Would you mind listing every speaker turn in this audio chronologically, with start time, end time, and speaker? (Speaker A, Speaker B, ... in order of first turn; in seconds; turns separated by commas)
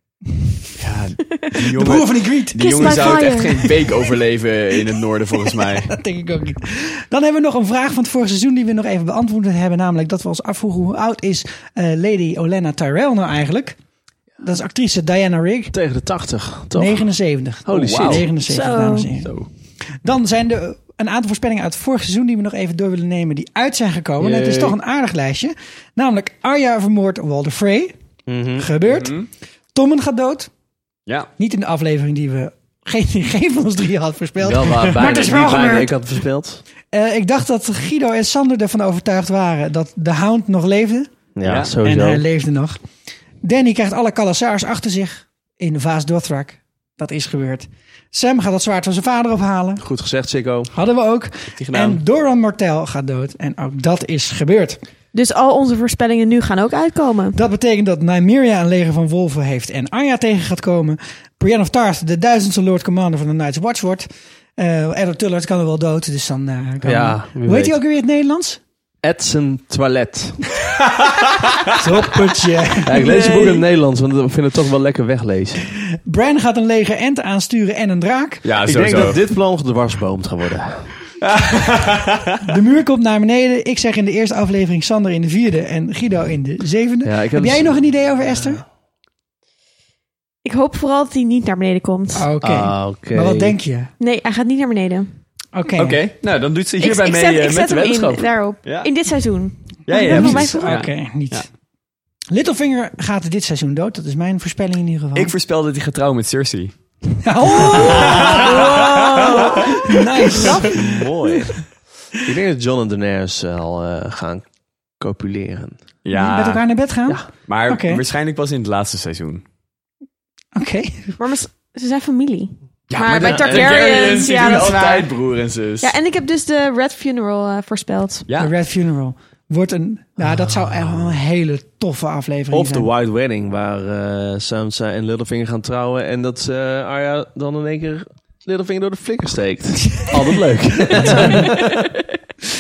Speaker A: 0.8-5.9, Speaker B: 1.6-3.2, Speaker C: 2.6-3.9, Speaker B: 5.9-13.8, Speaker B: 14.4-15.8, Speaker D: 15.7-17.1, Speaker B: 16.7-19.4, Speaker D: 17.7-18.3, Speaker A: 17.7-18.3, Speaker C: 18.5-19.1, Speaker A: 19.2-19.5, Speaker B: 20.0-27.9, Speaker A: 24.2-24.8, Speaker D: 28.3-28.7, Speaker B: 28.6-30.5, Speaker A: 28.9-29.3, Speaker B: 31.4-35.9, Speaker D: 34.4-36.6, Speaker A: 34.5-35.8, Speaker B: 36.9-41.1, Speaker D: 41.4-42.2, Speaker A: 41.4-41.8, Speaker B: 41.8-42.8, Speaker B: 43.4-49.8, Speaker D: 49.8-50.7, Speaker B: 50.7-54.8, Speaker A: 51.6-52.0, Speaker C: 55.1-57.4, Speaker B: 57.4-68.6, Speaker D: 66.8-67.8, Speaker D: 69.0-70.4, Speaker B: 71.7-73.5, Speaker D: 72.8-75.7, Speaker A: 73.1-73.4, Speaker B: 76.1-78.5, Speaker A: 78.4-79.2, Speaker D: 78.6-81.0, Speaker A: 81.2-82.2, Speaker B: 82.4-88.6, Speaker D: 87.0-88.6, Speaker C: 90.5-92.2, Speaker B: 92.2-93.9, Speaker D: 92.4-93.6, Speaker C: 94.0-95.1, Speaker B: 95.5-96.0, Speaker A: 95.8-98.9, Speaker C: 96.8-100.8, Speaker A: 99.9-101.5, Speaker B: 100.1-101.5, Speaker B: 102.3-105.3, Speaker A: 105.2-106.7, Speaker B: 107.2-110.8, Speaker C: 107.7-110.8, Speaker A: 108.0-108.7, Speaker D: 110.7-114.5, Speaker D: 115.0-115.8, Speaker A: 116.0-116.6, Speaker B: 116.1-118.0, Speaker A: 117.5-119.4, Speaker B: 120.6-121.2, Speaker C: 121.2-125.1, Speaker A: 122.9-125.9, Speaker D: 123.2-123.8, Speaker C: 125.8-128.2, Speaker A: 128.3-128.5, Speaker B: 128.4-132.9, Speaker D: 132.5-141.8, Speaker B: 141.0-141.5, Speaker C: 141.0-141.9